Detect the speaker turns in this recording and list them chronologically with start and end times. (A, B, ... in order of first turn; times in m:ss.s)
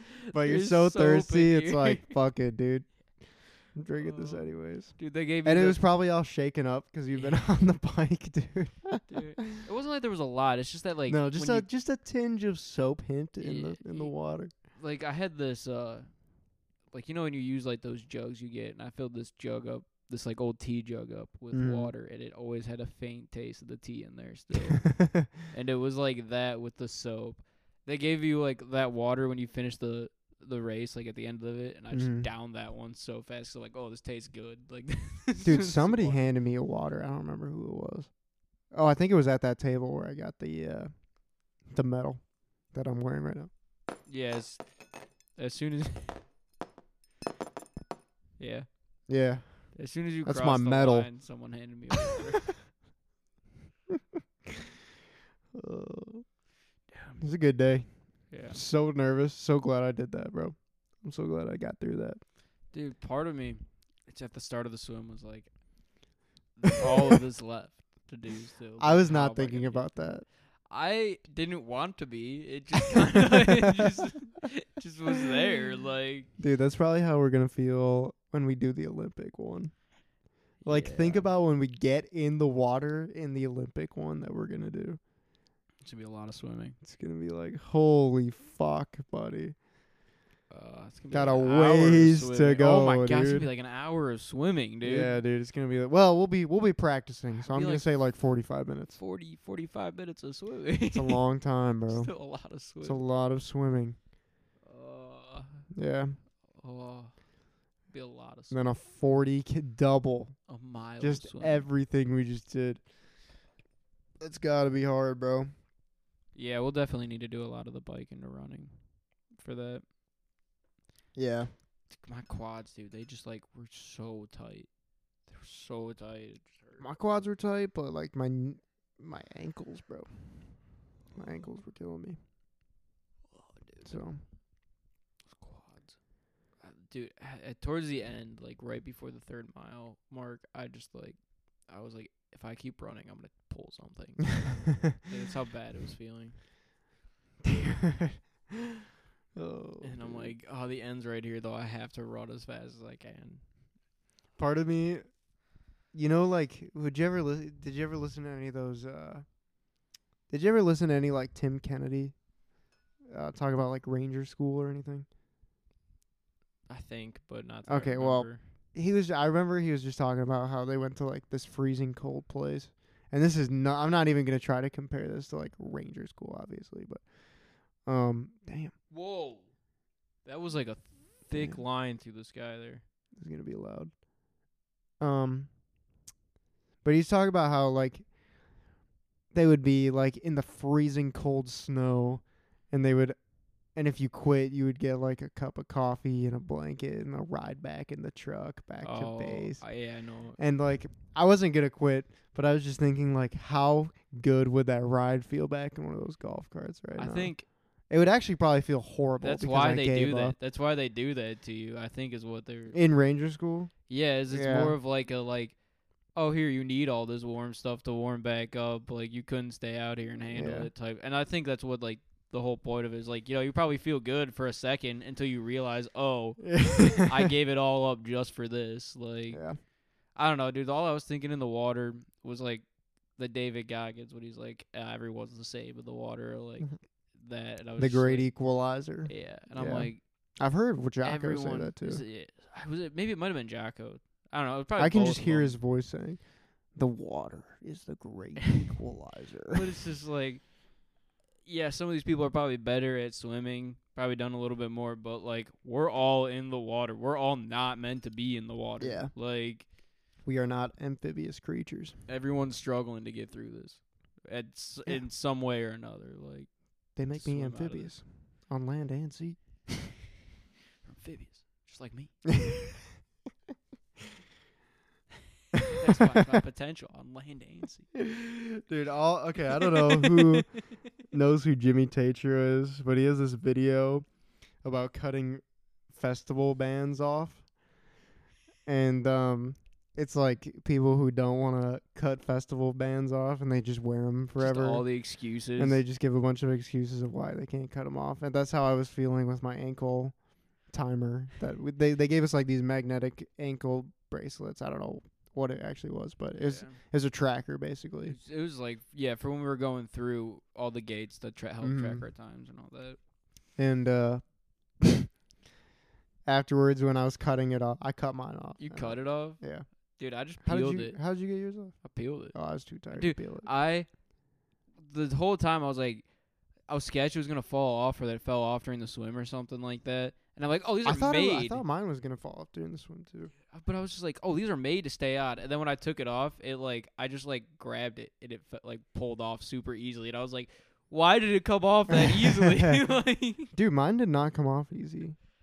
0:00.3-0:09.2 A
0:00.3-0:02.2 B
0:04.0-0:05.8 B
0:07.1-0:07.4 B
0:09.1-0:11.7 B
0:11.1-0:14.5 A
0:13.4-0:36.2 B
0:21.5-0:21.9 A
0:25.0-0:25.3 A
0:31.9-0:32.3 A
0:35.4-0:43.5 A
0:44.1-0:46.2 B
0:48.4-0:49.2 B
0:49.1-0:51.1 A
0:49.7-0:52.5 B
0:55.5-0:56.4 A
0:56.9-0:57.2 B
0:57.2-1:02.2 A
0:58.3-0:58.6 B
1:02.7-1:16.3 B
1:08.8-1:10.3 A
1:16.4-1:25.0 A
1:20.6-1:21.3 B
1:25.8-1:26.8 B
1:26.8-1:29.6 A
1:30.5-1:35.2 B
1:31.1-1:33.5 A
1:34.8-1:39.0 A
1:37.5-1:37.9 B
1:39.0-1:41.3 B
1:40.9-1:44.0 A
1:41.9-1:43.0 B
1:44.6-1:45.7 B
1:45.7-1:46.2 A
1:46.5-1:48.6 B
1:48.5-1:53.0 A
1:50.5-1:51.7 B
1:54.2-1:55.5 A
1:56.3-1:59.9 B
2:01.1-2:01.5 A
2:01.9-2:04.7 B
2:05.2-2:06.8 B
2:06.8-2:12.2 A
2:13.3-2:14.2 B
2:13.8-2:14.2 A
2:15.3-2:26.4 B
2:27.4-2:28.6 A
2:29.4-2:30.4 A
2:29.8-2:33.6 B
2:34.4-2:35.3 A
2:35.9-2:42.3 A
2:43.1-2:45.1 A
2:46.7-2:48.5 B
2:47.7-2:58.8 A
2:58.9-2:59.5 B
3:00.2-3:02.8 B
3:01.3-3:01.6 A
3:03.2-3:04.1 A
3:05.0-3:05.5 A
3:06.8-3:08.6 A
3:09.3-3:30.4 A
3:18.8-3:20.4 B
3:27.0-3:27.5 B
3:29.2-3:32.8 B
3:32.7-3:34.8 A
3:33.9-3:58.5 B
3:40.3-3:40.7 A
3:46.4-3:47.2 A
3:49.3-3:49.6 A
3:57.8-4:02.0 A
3:59.0-4:00.0 B
4:01.0-4:05.6 B
4:04.8-4:09.7 A
4:09.5-4:19.7 B
4:18.8-4:19.1 A
4:20.2-4:22.0 A
4:22.1-4:28.0 B
4:27.0-4:29.7 A
4:30.8-4:32.3 B
4:32.4-4:32.8 A
4:35.7-4:37.9 B
4:38.0-4:47.6 A
4:48.6-5:08.2 A
4:54.4-4:55.8 B
5:06.3-5:06.8 B
5:08.0-5:13.0 B
5:11.6-5:12.1 A
5:13.6-5:15.1 A
5:16.2-5:19.7 A
5:18.6-5:31.6 B
5:20.2-5:23.5 A
5:30.8-5:33.3 A
5:33.5-5:43.5 B
5:42.4-5:42.7 A
5:43.4-5:45.2 A